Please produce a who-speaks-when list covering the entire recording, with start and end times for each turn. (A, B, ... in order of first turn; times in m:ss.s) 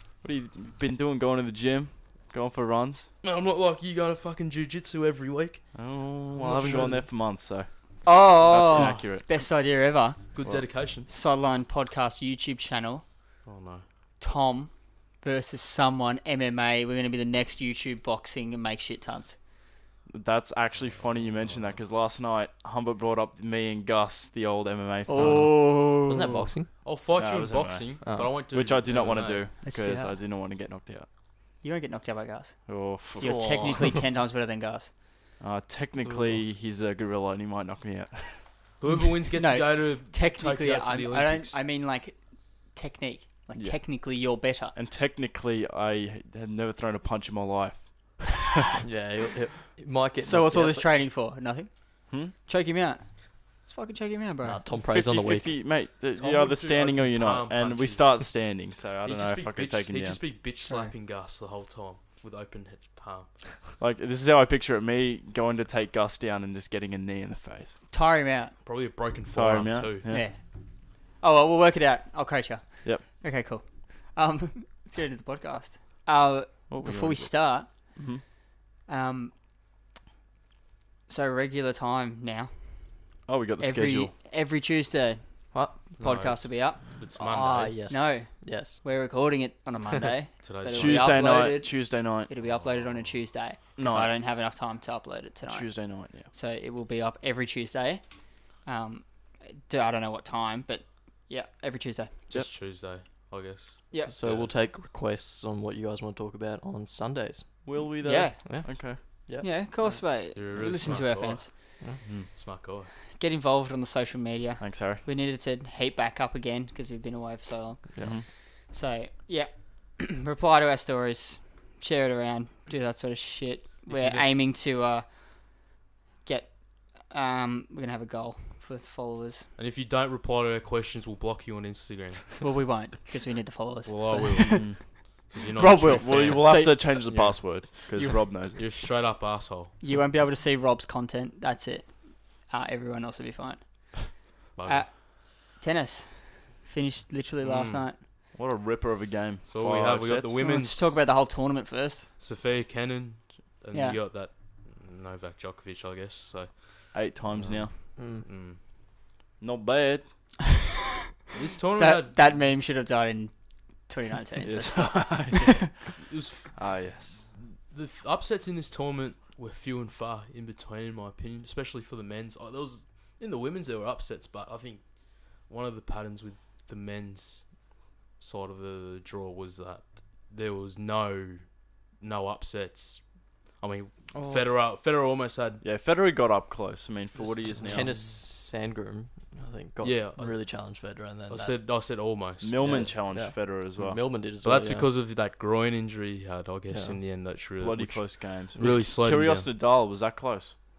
0:00.2-0:03.1 A
0:03.2-0:07.1 B
0:05.7-0:09.3 A
0:08.0-0:10.3 C
0:10.3-0:11.1 B
0:11.1-0:13.0 C
0:13.4-0:13.8 B
0:14.2-0:19.4 C
0:20.1-0:25.6 A
0:21.0-0:21.5 B
0:25.1-0:26.5 C
0:25.2-0:26.7 D
0:26.8-0:29.5 B
0:27.2-0:31.1 A
0:28.0-0:28.3 D
0:29.6-0:30.1 C
0:31.6-0:35.0 C
0:32.7-0:33.9 A
0:33.2-0:34.0 D
0:35.4-0:38.7 A
0:36.0-0:36.4 D
0:38.8-0:41.6 B
0:39.3-0:44.8 C
0:43.5-0:48.4 A
0:48.8-0:50.9 D
0:50.2-0:54.6 C
0:54.4-0:55.6 D
0:54.8-1:00.2 A
0:56.1-0:58.5 B
0:59.0-1:03.5 B
1:00.7-1:00.9 C
1:03.8-1:07.8 A
1:07.9-1:08.6 C
1:08.6-1:10.1 B
1:09.3-1:10.3 A
1:10.1-1:18.1 C
1:16.7-1:18.2 A
1:18.9-1:19.3 C
1:21.1-1:26.8 C
1:23.3-1:24.1 A
1:25.5-1:25.8 D
1:26.0-1:27.8 B
1:27.1-1:28.8 D
1:27.9-1:42.2 C
1:30.4-1:31.1 B
1:30.7-1:32.3 A
1:32.4-1:33.1 B
1:33.8-1:34.1 A
1:35.5-1:36.3 A
1:42.3-1:44.5 B
1:44.1-1:47.7 D
1:47.6-1:49.0 A
1:48.0-1:48.8 C
1:48.4-1:49.5 D
1:49.4-1:51.8 C
1:49.8-1:52.9 B
1:53.2-2:09.5 C
1:54.6-1:55.0 A
1:58.0-1:58.2 A
2:03.9-2:04.2 B
2:09.6-2:12.4 B
2:12.4-2:17.0 C
2:13.8-2:17.3 B
2:15.3-2:18.7 A
2:17.1-2:17.4 D
2:18.6-2:19.8 B
2:19.8-2:28.0 C
2:24.5-2:24.8 B
2:27.4-2:27.8 B
2:28.3-2:30.3 A
2:29.5-2:31.0 B
2:30.4-2:32.1 C
2:32.2-2:38.6 B
2:33.7-2:34.0 C
2:36.9-2:37.8 A
2:38.0-2:38.3 D
2:39.4-2:40.2 A
2:41.3-2:42.2 B
2:41.8-2:45.7 C
2:44.4-2:45.9 A
2:46.0-2:46.7 B
2:46.5-2:47.3 A
2:47.3-3:03.0 B
3:03.6-3:05.6 B
3:04.1-3:04.5 A
3:05.6-3:08.0 A
3:07.4-3:08.0 B
3:07.6-3:11.6 D
3:09.8-3:10.5 B
3:11.3-3:13.1 B
3:12.4-3:14.0 A
3:12.6-3:14.9 D
3:14.4-3:19.5 B
3:16.7-3:17.0 D
3:17.6-3:20.6 A